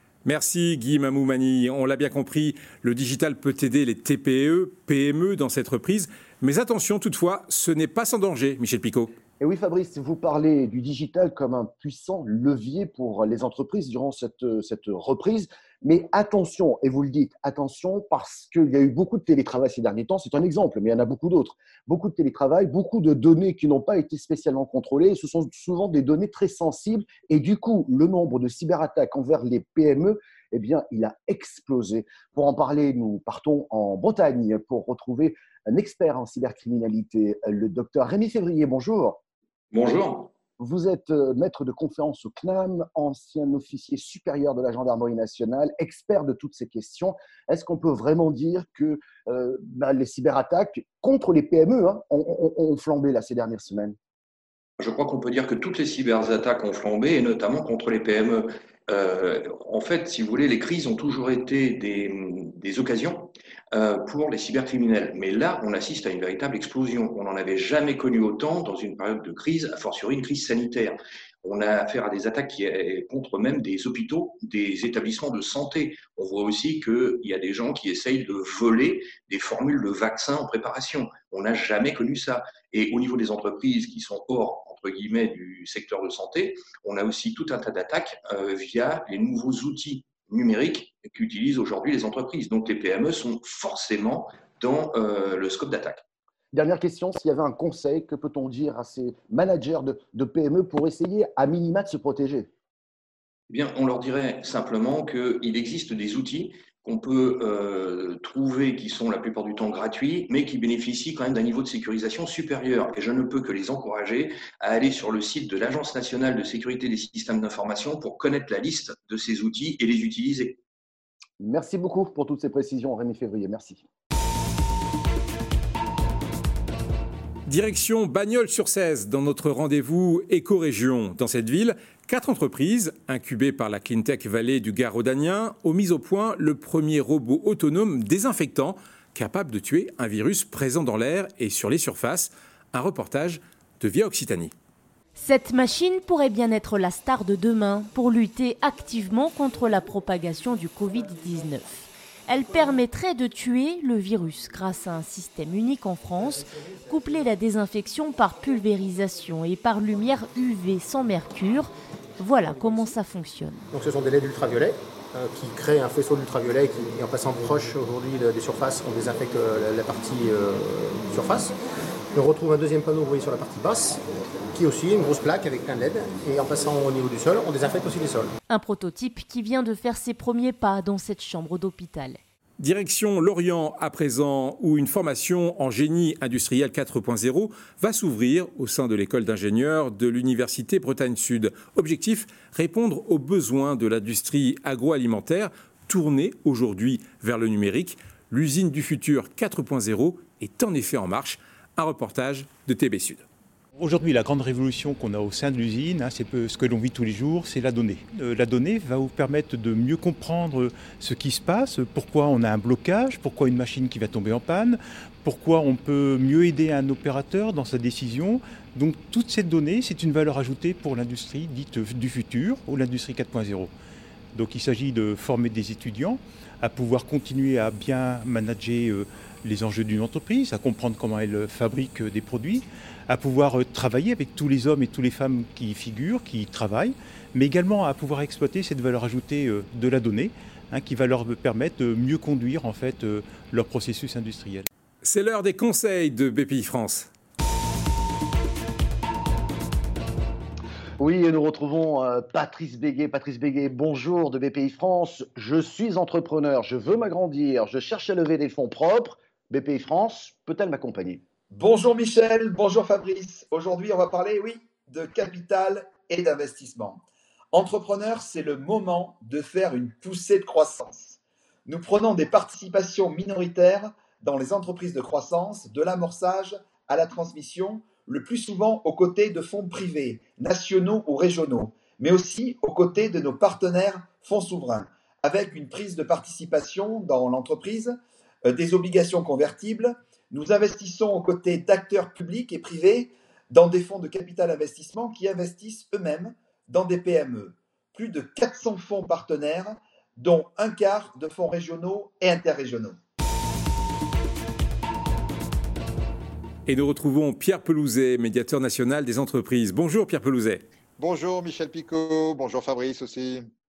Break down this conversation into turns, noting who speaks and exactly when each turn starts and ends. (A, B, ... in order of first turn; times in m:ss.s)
0:00.3-0:08.9 A
0:09.4-0:39.2 B
0:39.7-0:40.3 C
0:40.6-0:54.0 B
0:54.8-1:36.0 C
1:36.5-1:42.5 B
1:43.5-2:00.6 C
2:01.4-2:03.8 B
2:07.5-2:24.5 A
2:25.2-2:43.6 D
2:43.8-2:51.5 E
2:52.2-2:54.0 E
2:54.6-2:58.2 E
2:58.5-3:02.2 D
3:02.6-3:21.2 A
3:21.8-3:23.2 A
3:23.8-3:43.7 F
3:44.3-4:04.7 F
4:05.0-4:07.0 A
4:11.0-4:21.2 B
4:21.5-4:27.0 G
4:27.5-5:03.0 G
5:06.7-5:10.4 A
5:11.0-5:13.5 H